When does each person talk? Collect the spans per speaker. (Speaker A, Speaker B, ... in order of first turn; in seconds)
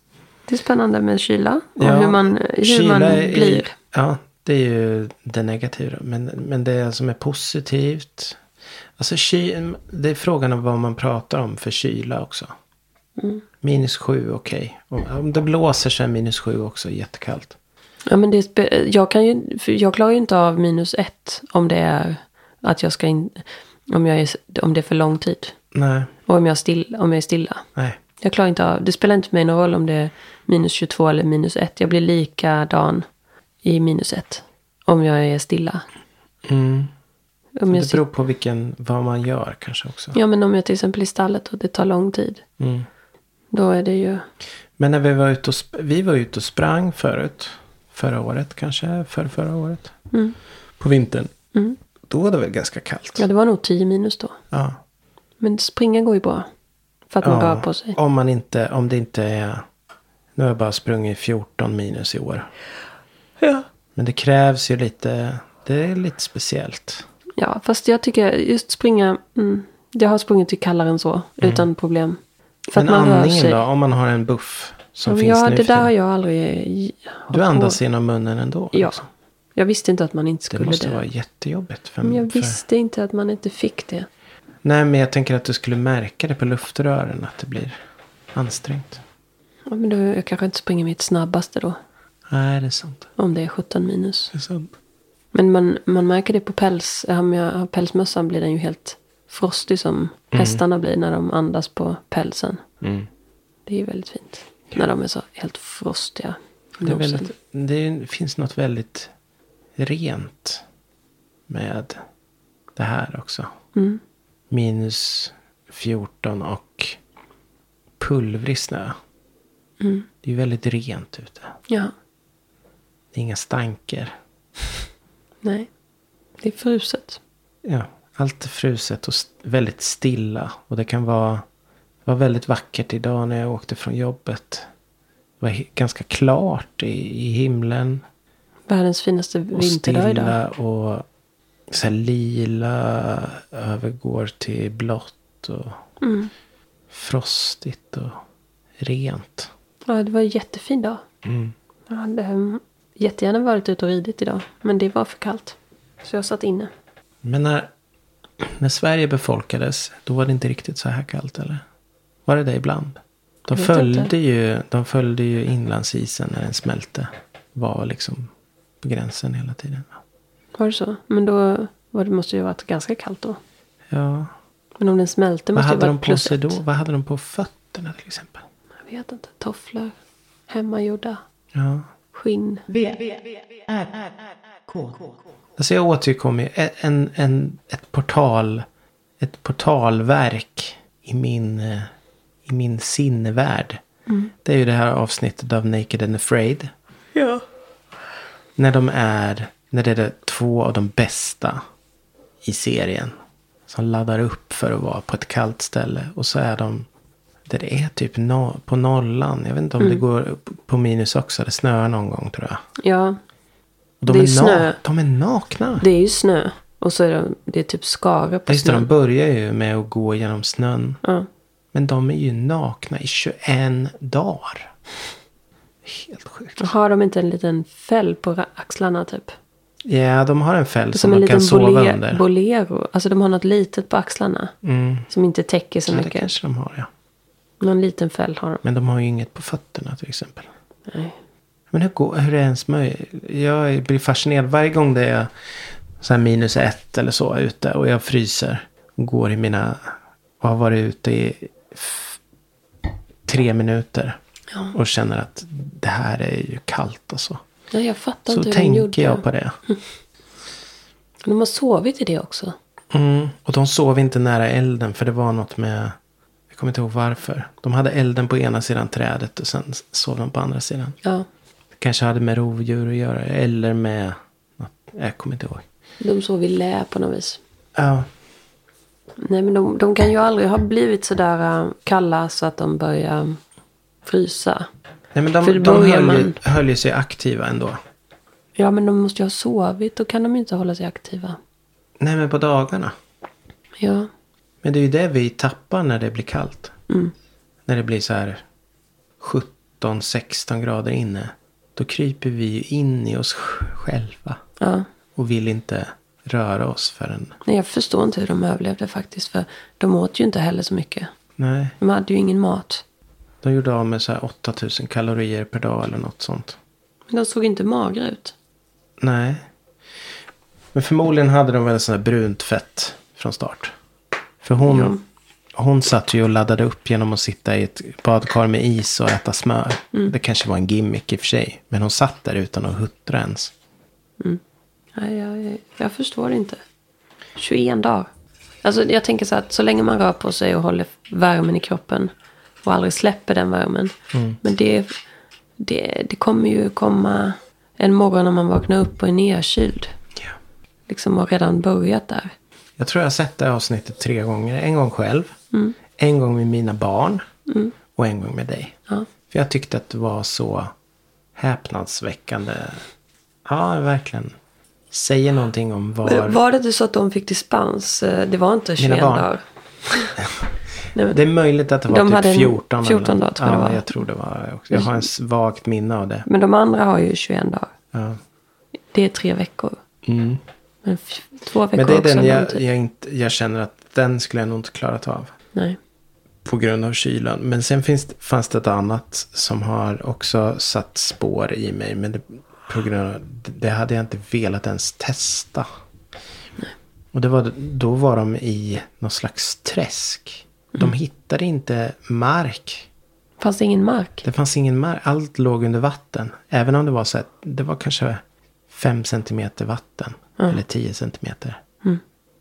Speaker A: 0.5-3.7, 13.2-13.4, 18.1-25.6, 26.3-27.6, 28.2-33.0, 33.6-35.8, 37.6-38.0, 40.1-42.4, 43.5-44.2, 53.2-54.4, 55.4-56.5, 57.1-58.0, 67.4-72.2, 72.7-73.6, 75.0-77.8, 78.7-79.0, 79.5-81.0, 82.0-84.1, 89.7-91.8, 93.2-94.3, 95.3-102.6, 103.7-107.3, 113.7-114.0, 119.8-120.1, 125.4-125.7, 126.4-127.2, 138.7-140.3, 146.0-146.3, 149.9-151.0, 151.9-156.7, 163.5-164.1, 170.6-173.4, 174.8-176.6, 178.9-179.9, 180.5-181.2, 182.1-182.6, 197.2-197.4, 212.8-213.2, 214.1-214.8, 215.8-218.9, 226.6-229.3, 230.9-234.5, 235.1-236.3, 237.6-238.6, 240.9-241.2, 257.7-259.8, 261.2-262.5, 276.0-277.4, 279.2-283.4, 284.1-284.6, 285.4-286.4, 288.6-291.4, 293.8-294.1, 304.6-304.9, 307.4-311.1, 311.8-312.8, 317.1-318.3, 324.6-325.0, 334.9-336.6, 337.4-338.1, 338.6-342.1, 342.6-345.0, 345.6-349.9, 350.9-352.3, 357.5-357.7, 366.0-370.1, 371.9-373.9, 374.7-375.0, 376.3-377.7, 378.9-379.8, 380.8-382.6, 403.4-404.2
Speaker B: 1.8-8.4, 9.0-12.5, 13.6-17.6, 25.7-26.1, 36.4-36.9, 37.7-40.1, 42.6-42.9, 44.8-49.9, 50.8-51.3, 52.1-53.3, 54.5-54.8, 57.2-59.6, 60.3-62.5, 63.9-67.0, 71.4-71.7, 72.7-75.9, 77.3-79.1, 80.5-82.6, 84.6-87.8, 88.3-89.0, 92.3-93.1, 94.3-94.7, 100.3-100.6, 102.8-103.1, 106.8-109.1, 109.8-110.6, 111.5-112.0, 112.7-113.5, 114.5-117.0, 118.0-119.0, 120.2-121.5, 123.1-124.1, 127.6-131.4, 132.0-134.7, 135.4-138.0, 139.5-141.1, 141.7-145.8, 146.9-148.2, 148.8-149.5, 151.2-151.5, 157.2-157.7, 158.4-161.6, 162.2-170.0, 173.9-174.3, 175.5-178.4, 181.5-181.9, 185.6-188.6, 189.2-191.9, 192.4-193.8, 194.4-196.7, 198.6-201.6, 202.4-203.1, 203.7-206.9, 207.4-212.6, 214.0-215.8, 218.5-221.0, 221.7-224.7, 225.8-226.7, 229.8-232.2, 234.6-235.1, 235.9-236.9, 238.6-240.5, 241.7-245.3, 246.0-252.2, 253.2-254.2, 254.7-257.4, 258.3-259.6, 262.9-265.9, 266.5-271.0, 271.8-275.6, 277.8-278.1, 285.1-287.8, 292.0-292.9, 294.6-296.7, 297.6-298.4, 299.2-304.4, 305.1-307.4, 311.4-311.7, 313.4-316.6, 319.0-319.5, 320.7-323.7, 324.4-325.0, 325.6-333.5, 344.1-344.4, 352.8-355.4, 355.9-357.2, 357.9-358.8, 359.3-360.7, 361.3-362.8, 363.4-364.3, 364.9-366.4, 368.8-369.3, 371.1-376.3, 377.9-378.2, 380.0-380.4, 381.7-385.3, 386.4-395.7, 397.1-402.9, 404.2-411.6
Speaker C: 182.7-185.2